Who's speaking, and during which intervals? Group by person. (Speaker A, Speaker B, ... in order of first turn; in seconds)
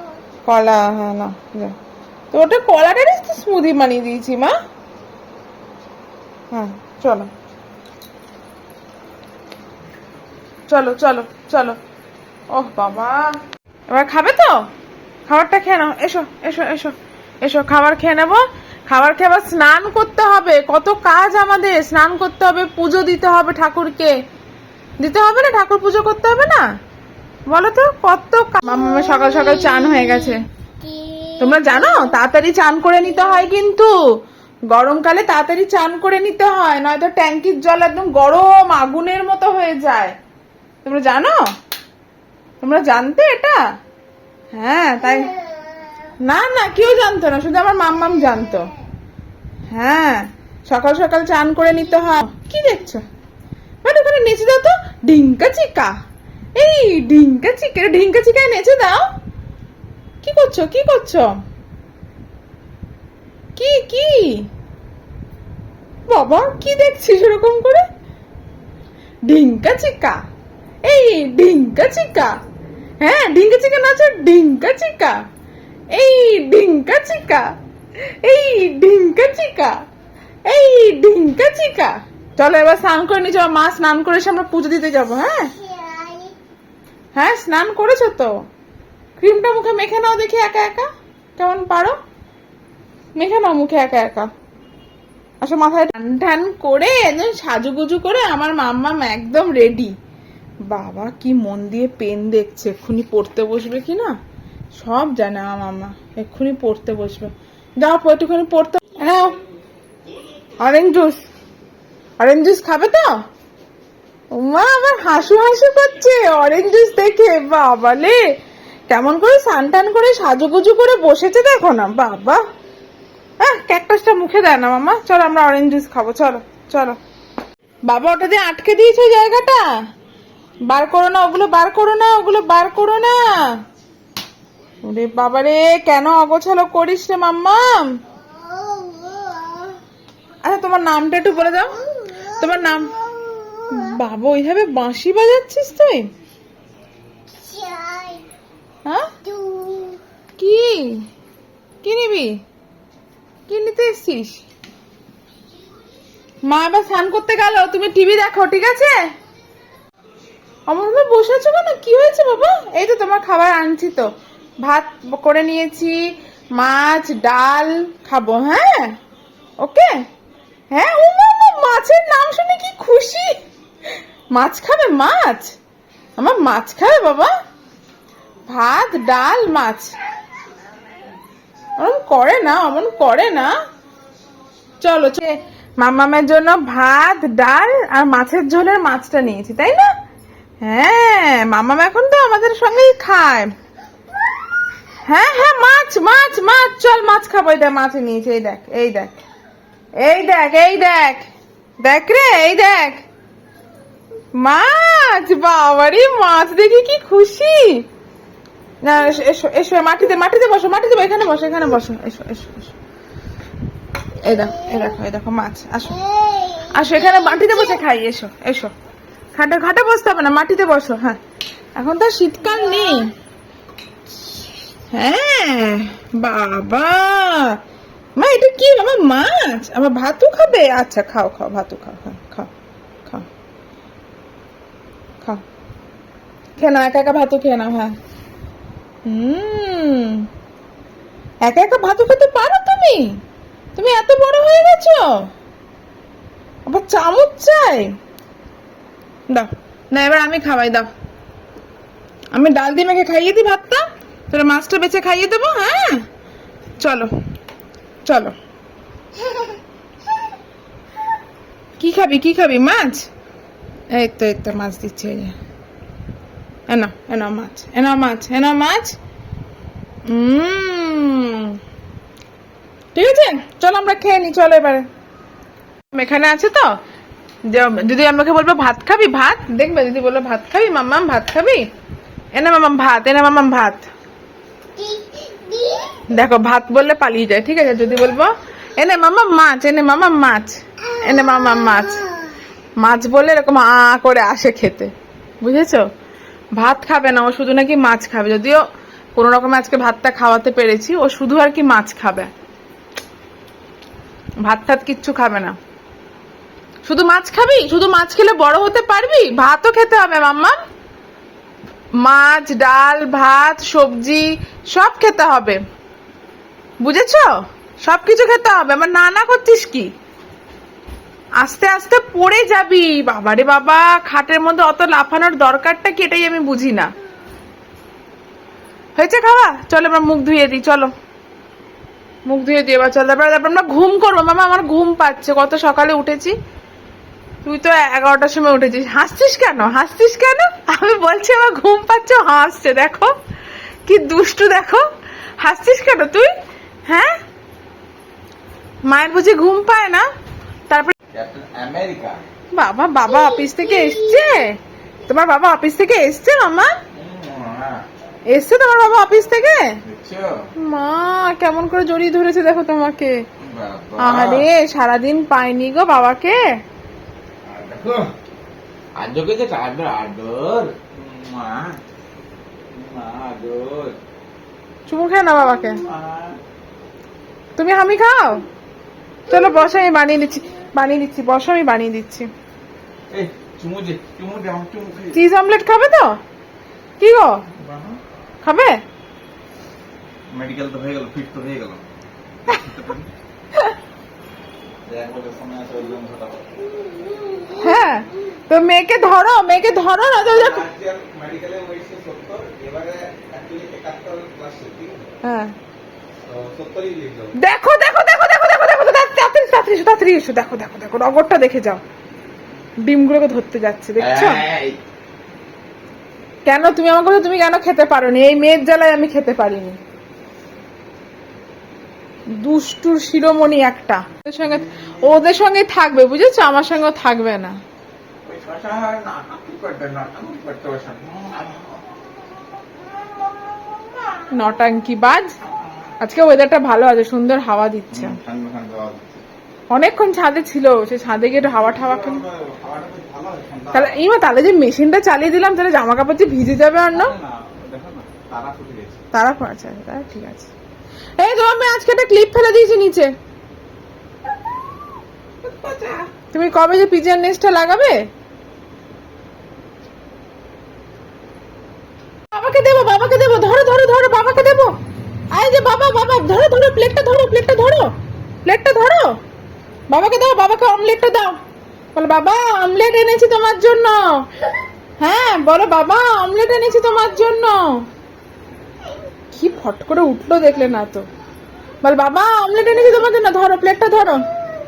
Speaker A: 0.4-1.7, 2.3-4.5, 6.5-7.3, 10.7-11.8, 12.5-13.4, 13.9-14.6, 15.2-24.1, 25.0-26.6, 27.5-30.4, 31.3-33.9, 34.7-40.1, 40.8-41.4, 42.6-43.6, 44.5-45.4, 46.2-48.7, 49.7-53.0, 53.8-55.9, 56.6-59.1, 60.2-61.3, 63.6-64.5, 66.1-67.8, 69.2-70.2, 70.8-72.4, 73.0-75.2, 75.9-77.5, 78.1-79.8, 80.5-85.7, 87.1-88.3, 89.2-92.0, 93.1-94.3, 95.4-100.0, 100.6-104.2, 104.7-109.4, 110.6-111.2, 112.2-113.2, 114.3-118.2, 118.9-122.4, 123.4-127.0, 127.8-129.6, 130.7-133.6, 134.8-138.0, 140.4-142.9, 143.7-146.1, 148.8-149.2, 150.4-151.1, 151.8-152.4, 153.5-154.4, 156.4-159.0, 160.7-164.1, 164.6-169.0, 169.6-170.0, 170.7-173.4, 174.3-175.5, 176.2-177.3, 178.4-179.9, 181.8-183.5, 184.8-189.9, 190.6-193.5, 195.0-199.1, 200.0-201.3, 201.8-203.0, 204.3-207.8, 208.8-212.7, 214.2-216.0, 216.6-218.7, 219.3-221.2, 221.7-223.1, 224.9-227.6, 228.2-232.5, 236.6-237.9, 239.0-240.3, 241.4-243.2, 243.7-245.3, 246.6-247.9, 249.3-250.9, 252.3-256.1, 256.8-257.1, 258.0-258.3, 261.8-263.1, 263.9-265.4, 266.7-268.9, 270.1-271.6, 272.9-274.9, 275.9-276.8, 277.4-281.7, 282.3-283.9, 286.0-292.0, 292.8-295.9, 296.5-298.6, 299.1-302.3, 304.4-305.6, 306.8-310.6, 312.0-315.6, 316.8-319.9, 321.4-326.9, 328.9-330.9, 332.2-336.4, 337.4-343.1, 343.9-344.8, 345.4-346.3, 346.9-347.2, 348.8-350.1, 352.5-354.5, 355.1-356.7, 358.3-359.7, 360.6-363.1, 364.0-366.4, 374.9-375.8, 377.6-378.5, 379.3-382.3, 385.1-386.2, 387.0-387.4, 388.4-388.8, 397.5-400.6, 405.2-405.5, 407.4-411.8, 412.8-414.4, 416.4-419.8, 422.4-427.5, 434.3-435.3, 436.0-438.1, 439.7-442.2, 443.7-447.1, 449.1-450.5, 451.2-453.1, 456.3-458.0, 462.3-464.8, 465.3-469.2, 469.9-471.4, 471.9-474.0, 475.0-477.6, 479.3-481.1, 481.8-484.2
Speaker B: 351.1-352.2, 356.9-357.8, 359.9-360.4, 363.4-364.5, 367.4-368.1, 369.0-371.8, 372.7-373.9, 375.7-376.4, 383.1-385.2, 387.6-388.0, 390.3-391.8, 392.5-393.1, 394.9-396.8, 400.2-405.1, 406.2-407.4, 414.0-414.8, 424.4-425.2, 428.2-431.8, 437.9-439.1, 441.4-444.0, 446.9-449.0, 455.4-456.1